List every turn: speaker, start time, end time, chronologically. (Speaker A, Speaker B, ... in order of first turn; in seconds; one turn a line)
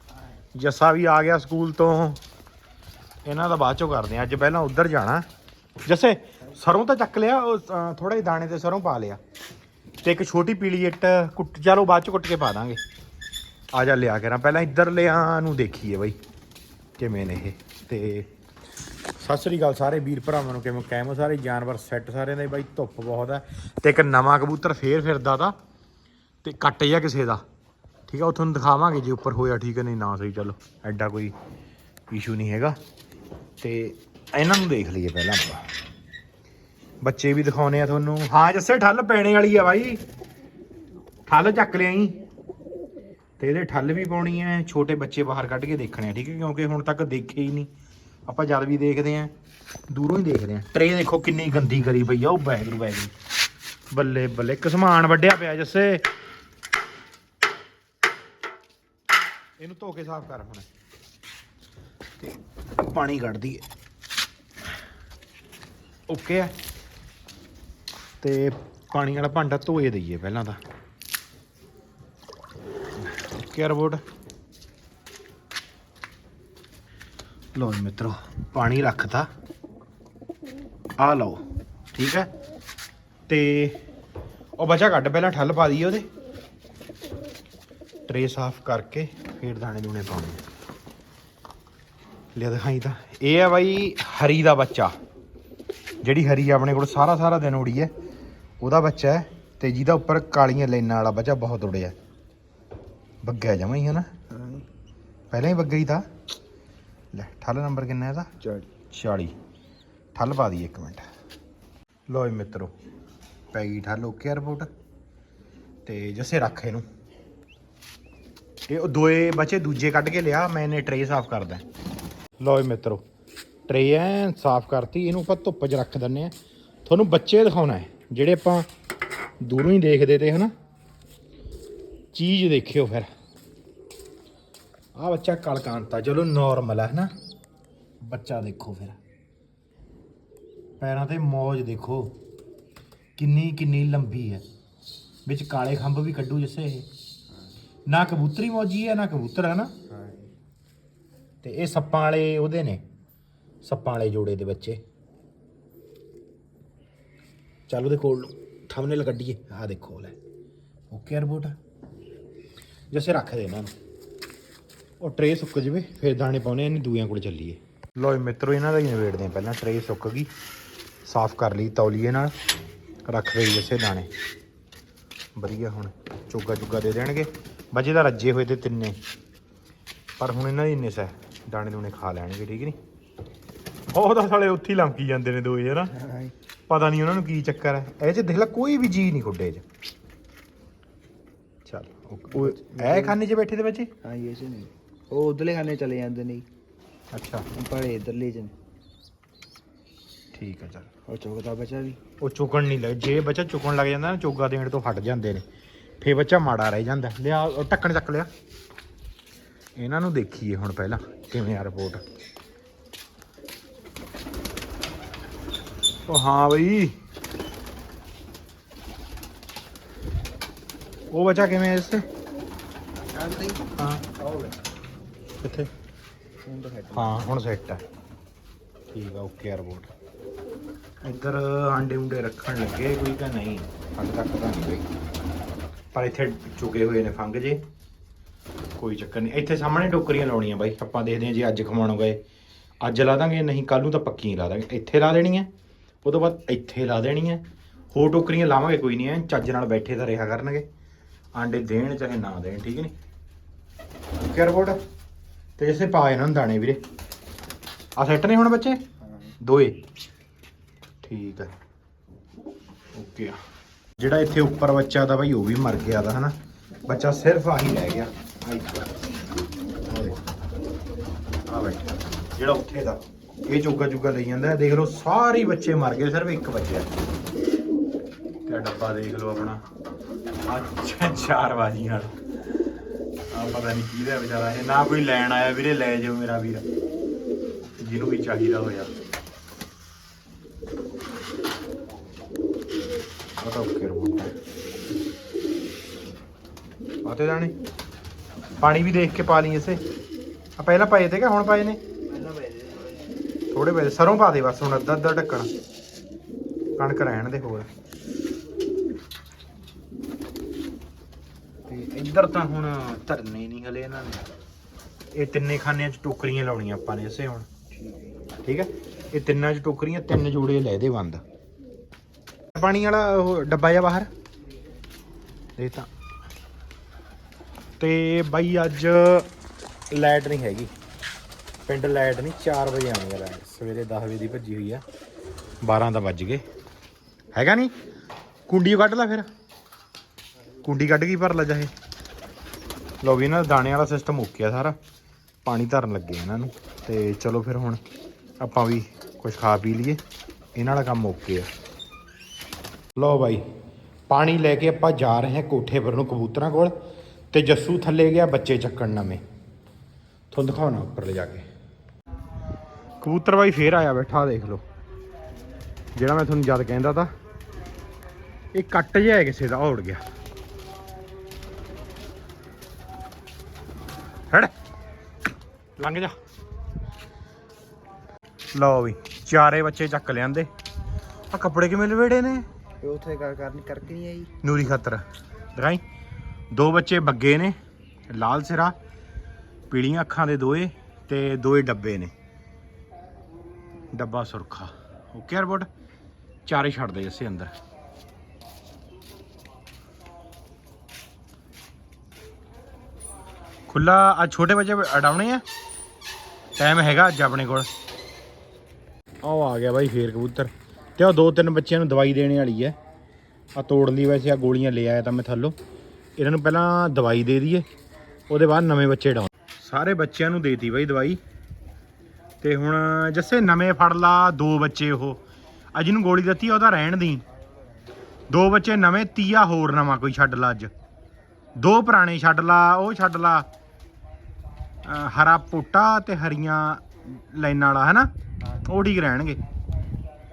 Speaker A: 0.5-2.2
Speaker A: 3.2-5.3
Speaker A: 5.9-9.2
Speaker A: 10.0-12.8
Speaker A: 13.7-16.2
Speaker A: 17.0-18.3
Speaker A: 19.2-25.6
Speaker A: 26.4-27.4
Speaker A: 28.1-31.3
Speaker A: 32.1-32.8
Speaker A: 33.6-35.7
Speaker A: 37.0-40.0
Speaker A: 41.3-42.2
Speaker A: 43.4-47.7
Speaker A: 48.3-49.3
Speaker A: 49.9-53.1
Speaker A: 53.9-56.0
Speaker A: 59.6-60.7
Speaker A: 62.2-63.6
Speaker A: 66.1-66.5
Speaker A: 68.2-70.6
Speaker A: 73.1-74.0
Speaker A: 77.5-79.3
Speaker A: 81.0-82.3
Speaker A: 83.3-83.8
Speaker A: 84.6-86.1
Speaker A: 88.1-90.4
Speaker A: 92.3-95.0
Speaker A: 96.0-97.9
Speaker A: 98.6-102.0
Speaker A: 103.2-104.2
Speaker A: 105.3-106.1
Speaker A: 107.1-108.3
Speaker A: 108.8-109.3
Speaker A: 110.2-111.0
Speaker A: 112.1-112.7
Speaker A: 113.5-114.7
Speaker A: 115.8-116.8
Speaker A: 118.7-121.7
Speaker A: 122.4-123.0
Speaker A: 123.7-126.3
Speaker A: 126.8-128.7
Speaker A: 129.4-130.5
Speaker A: 132.1-133.1
Speaker A: 135.0-137.1
Speaker A: 138.0-139.0
Speaker A: 140.8-142.2
Speaker A: 143.2-144.4
Speaker A: 145.3-146.9
Speaker A: 147.9-149.7
Speaker B: 149.9-150.3
Speaker A: 151.4-152.8
Speaker A: 153.6-154.8
Speaker A: 157.7-160.2
Speaker A: 160.9-161.6
Speaker A: 162.9-163.7
Speaker A: 165.0-170.3
Speaker A: 171.1-172.3
Speaker A: 173.1-174.1
Speaker A: 175.4-179.0
Speaker A: 180.2-182.8
Speaker A: 183.9-186.0
Speaker B: 186.0-186.3
Speaker A: 186.7-189.7
Speaker A: 191.7-193.9
Speaker B: 192.3-193.2
Speaker B: 194.0-196.5
Speaker A: 197.1-197.5
Speaker B: 197.5-198.5
Speaker A: 200.3-200.9
Speaker B: 201.1-202.0
Speaker A: 202.2-205.4
Speaker A: 206.0-208.3
Speaker A: 209.8-212.0
Speaker A: 216.1-217.0
Speaker A: 221.1-222.1
Speaker B: 223.0-224.6
Speaker A: 223.8-224.1
Speaker A: 225.4-225.7
Speaker B: 226.4-227.2
Speaker A: 226.9-227.8
Speaker A: 228.9-229.9
Speaker A: 231.0-234.9
Speaker A: 235.9-237.6
Speaker A: 238.8-242.2
Speaker A: 242.8-245.5
Speaker A: 246.0-250.7
Speaker A: 251.3-252.9
Speaker A: 254.2-254.8
Speaker A: 255.6-256.8
Speaker A: 258.0-258.8
Speaker A: 259.4-259.8
Speaker A: 261.0-261.5
Speaker A: 262.9-263.4
Speaker A: 264.0-266.4
Speaker A: 266.9-268.9
Speaker A: 269.9-270.2
Speaker A: 271.5-276.9
Speaker A: 278.4-279.6
Speaker A: 280.5-282.1
Speaker A: 283.3-286.6
Speaker A: 287.8-288.9
Speaker A: 293.4-294.3
Speaker A: 297.0-297.6
Speaker A: 298.6-299.8
Speaker A: 300.6-301.8
Speaker B: 302.1-303.0
Speaker A: 303.5-305.5
Speaker A: 306.8-307.7
Speaker A: 311.7-314.3
Speaker A: 315.1-317.5
Speaker B: 317.8-318.1
Speaker A: 318.4-321.2
Speaker A: 322.5-324.1
Speaker A: 325.6-325.9
Speaker A: 327.8-329.3
Speaker A: 329.9-330.7
Speaker A: 331.7-334.8
Speaker A: 335.6-336.4
Speaker A: 337.3-337.7
Speaker A: 338.5-339.3
Speaker A: 340.6-341.7
Speaker A: 343.0-344.8
Speaker A: 345.4-347.8
Speaker A: 348.4-350.0
Speaker A: 350.6-351.5
Speaker A: 353.0-353.4
Speaker A: 354.1-356.8
Speaker A: 357.3-359.2
Speaker A: 360.3-361.4
Speaker A: 363.0-364.6
Speaker A: 366.0-367.1
Speaker A: 368.5-370.0
Speaker A: 375.8-376.1
Speaker A: 378.5-380.5
Speaker A: 381.3-382.5
Speaker B: 382.8-384.3
Speaker A: 384.4-385.0
Speaker A: 385.6-385.8
Speaker A: 386.5-387.6
Speaker A: 388.1-388.8
Speaker A: 389.7-392.1
Speaker A: 393.9-395.7
Speaker A: 396.5-397.5
Speaker A: 403.7-405.4
Speaker A: 406.6-407.7
Speaker A: 409.2-412.8
Speaker A: 413.6-415.6
Speaker A: 416.2-417.7
Speaker A: 418.3-421.2
Speaker A: 422.4-425.2
Speaker A: 425.8-427.2
Speaker A: 428.3-430.7
Speaker A: 431.6-433.5
Speaker A: 434.9-439.4